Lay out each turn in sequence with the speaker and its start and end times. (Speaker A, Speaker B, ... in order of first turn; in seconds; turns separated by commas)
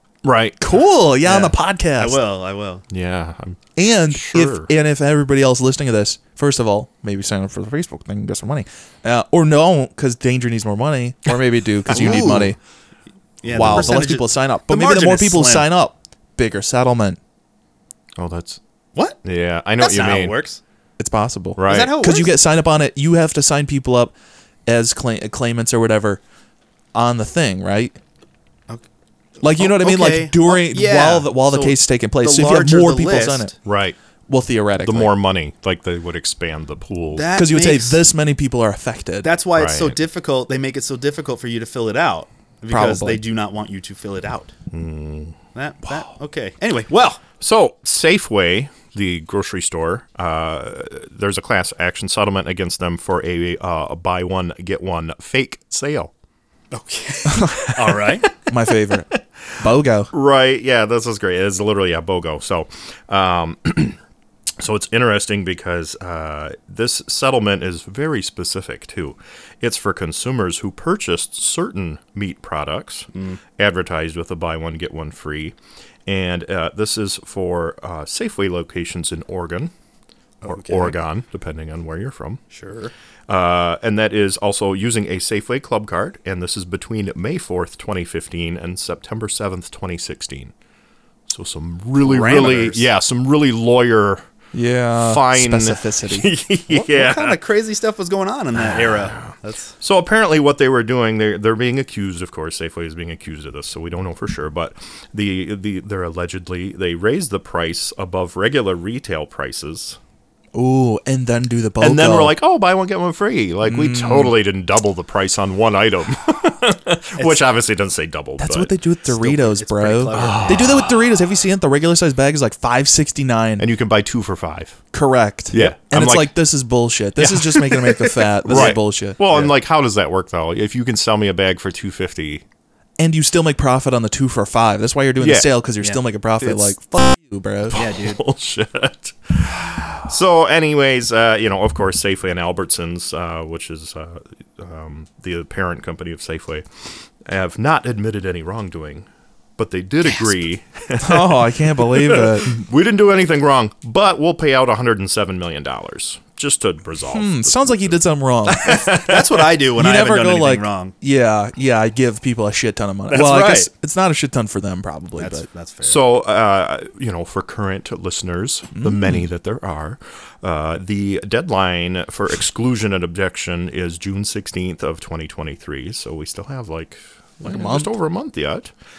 Speaker A: 0.2-0.6, Speaker B: 0.6-2.2, Speaker C: 1.2-2.8, Speaker A: 2.9-4.7, Speaker B: 3.8-12.6, Speaker C: 11.9-12.5, Speaker C: 13.4-15.7, Speaker B: 13.5-17.2, Speaker A: 18.2-18.6, Speaker A: 19.2-20.4, Speaker C: 19.8-20.6, Speaker B: 21.0-24.1, Speaker A: 21.6-21.9, Speaker C: 21.6-22.3, Speaker B: 24.7-26.2, Speaker B: 26.9-28.0, Speaker B: 29.4-33.5, Speaker C: 29.5-33.5, Speaker A: 33.6-34.0, Speaker B: 34.3-35.1, Speaker A: 34.8-37.3, Speaker C: 37.1-38.0, Speaker B: 37.3-39.3, Speaker C: 39.2-44.5, Speaker A: 39.5-40.0, Speaker B: 42.7-43.2, Speaker A: 44.7-45.4, Speaker C: 45.5-47.2, Speaker A: 47.4-56.1, Speaker C: 56.7-58.3, Speaker A: 57.6-58.0, Speaker B: 58.5-60.1, Speaker A: 60.1-64.0, Speaker A: 64.6-75.5, Speaker C: 73.1-73.4, Speaker A: 76.0-79.7, Speaker C: 80.4-81.0, Speaker A: 80.5-82.4, Speaker C: 82.5-82.9, Speaker A: 83.3-90.5, Speaker A: 91.3-94.2, Speaker C: 92.0-92.9, Speaker B: 94.5-96.3, Speaker A: 94.9-97.4, Speaker C: 96.7-99.7, Speaker A: 98.7-110.0, Speaker B: 110.5-112.3, Speaker A: 111.8-118.7, Speaker B: 113.6-114.3, Speaker C: 117.2-117.4, Speaker B: 118.4-123.7, Speaker C: 119.0-120.9, Speaker A: 120.1-120.9, Speaker A: 123.6-124.8, Speaker B: 124.9-129.2, Speaker A: 125.5-126.3, Speaker A: 127.2-127.5, Speaker C: 127.5-129.5, Speaker A: 128.4-132.4, Speaker B: 133.0-137.8, Speaker A: 135.2-135.5, Speaker A: 136.4-136.7, Speaker A: 137.7-149.1, Speaker C: 137.7-138.2, Speaker A: 149.6-158.0, Speaker B: 151.0-152.6, Speaker B: 157.1-158.9, Speaker A: 158.5-159.2, Speaker C: 158.6-160.9, Speaker B: 159.7-165.4, Speaker C: 163.1-163.7, Speaker C: 165.2-166.0, Speaker A: 165.8-178.7, Speaker B: 168.8-169.2, Speaker B: 177.4-177.9